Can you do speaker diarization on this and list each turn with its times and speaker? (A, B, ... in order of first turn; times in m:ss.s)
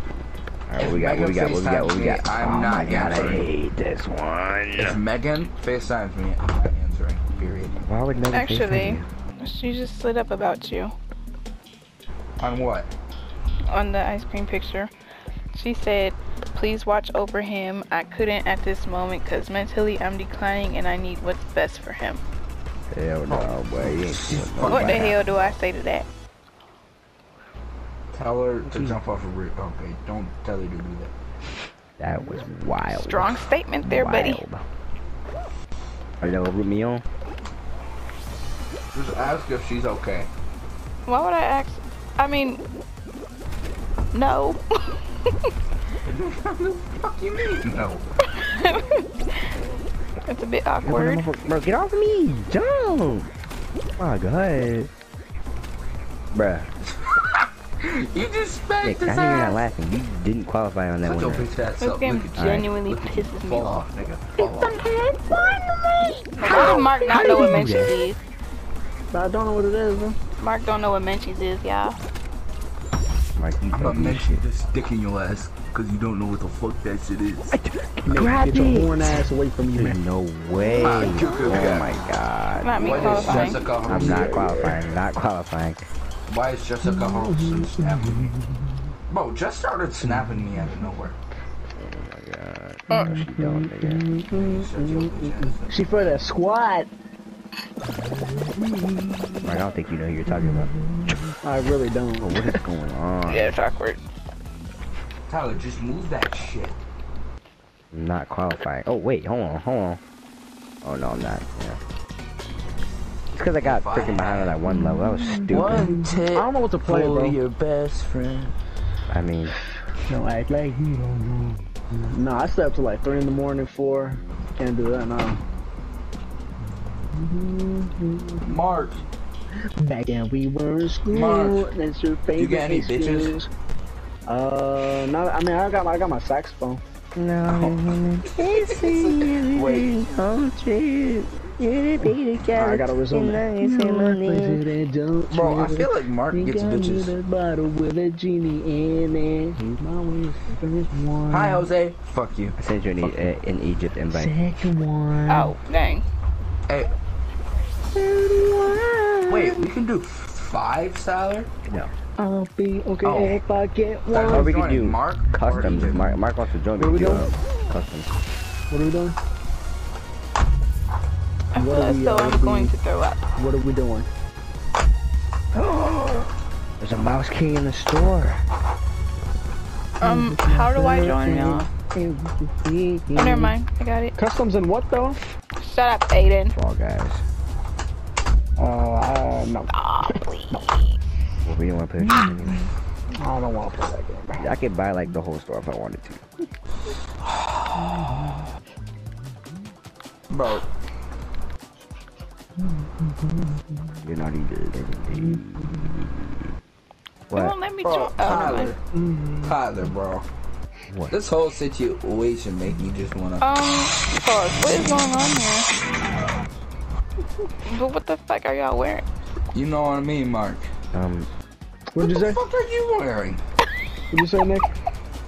0:00.7-0:05.0 A
0:00.8-0:03.5 B
0:04.8-0:07.8 B
0:07.8-0:09.1 A
0:08.3-0:10.9 C
0:12.4-0:12.9 B
0:13.7-0:14.9 C
0:15.5-0:22.2 C
0:22.9-0:25.5 A
0:23.3-0:25.2 B
0:24.7-0:26.1 C
0:28.1-0:31.1 B
0:28.7-0:29.0 A
0:32.0-0:34.6 A
0:32.9-0:34.4 C
0:36.2-0:37.0 A
0:38.9-0:40.3 B
0:41.1-0:42.6 C
0:44.1-0:45.0 C
0:46.0-0:48.0 B
0:48.4-0:49.5 C
0:50.2-0:51.2 C
0:50.8-0:53.3 A
0:54.0-0:54.9 A
0:56.3-0:56.7 A
0:57.0-0:59.6 B
0:58.8-1:01.5 A
1:01.0-1:04.8 B
1:01.8-1:03.9 C
1:02.4-1:02.7 A
1:04.4-1:05.5 C
1:05.3-1:06.9 D
1:06.4-1:08.2 C
1:06.4-1:08.0 A
1:09.1-1:10.2 D
1:10.4-1:12.0 C
1:13.4-1:14.4 A
1:13.8-1:17.6 B
1:17.5-1:25.8 A
1:18.1-1:20.0 D
1:20.6-1:22.0 B
1:22.6-1:23.7 C
1:22.8-1:24.4 B
1:23.8-1:24.8 D
1:26.3-1:28.4 B
1:26.8-1:28.6 D
1:29.1-1:31.2 B
1:31.8-1:34.1 A
1:32.9-1:36.9 D
1:34.3-1:35.8 B
1:38.6-1:39.4 D
1:39.4-1:40.8 A
1:41.4-1:42.5 D
1:42.2-1:43.5 A
1:43.3-1:44.0 C
1:45.3-1:46.8 B
1:47.9-1:50.0 A
1:50.8-1:51.8 A
1:53.3-1:55.9 A
1:53.6-1:54.6 B
1:54.8-1:57.4 D
1:55.5-1:58.5 B
1:59.1-1:59.6 A
2:00.1-2:05.4 D
2:07.1-2:08.5 D
2:08.4-2:09.0 B
2:09.8-2:13.5 D
2:11.1-2:11.7 B
2:12.4-2:13.4 B
2:14.3-2:16.8 D
2:17.2-2:24.6 A
2:17.4-2:20.0 B
2:22.5-2:31.7 D
2:25.3-2:27.2 B
2:31.3-2:33.2 B
2:32.6-2:34.4 A
2:34.1-2:35.6 D
2:35.3-2:36.0 C
2:37.9-2:39.6 D
2:39.3-2:41.5 B
2:41.7-2:41.9 A
2:42.2-2:44.5 D
2:43.0-2:43.4 B
2:44.1-2:46.2 B
2:44.2-2:48.1 A
2:46.8-2:47.3 D
2:48.7-2:49.2 D
2:51.5-2:53.2 C
2:51.6-2:52.8 D
2:53.4-2:54.1 D
2:55.5-2:58.4 A
3:00.0-3:01.7 C
3:00.0-3:03.5 D
3:03.2-3:04.2 C
3:04.2-3:05.2 D
3:05.6-3:06.5 C
3:06.5-3:07.2 A
3:08.6-3:10.7 D
3:09.7-3:10.5 C
3:11.4-3:12.7 A
3:12.0-3:12.6 D
3:13.2-3:14.5 D
3:14.4-3:16.2 A
3:17.8-3:18.4 D
3:20.3-3:20.7 B
3:22.8-3:23.6 D
3:24.0-3:26.4 A
3:25.2-3:25.9 D
3:27.3-3:27.6 A
3:27.3-3:28.7 C
3:27.8-3:28.8 B
3:29.0-3:29.5 D
3:29.4-3:30.3 B
3:30.9-3:31.1 A
3:31.1-3:33.5 B
3:33.4-3:35.7 C
3:37.6-3:39.1 C
3:39.5-3:40.7 B
3:40.9-3:41.3 A
3:41.9-3:42.4 D
3:42.0-3:43.4 B
3:44.1-3:44.7 D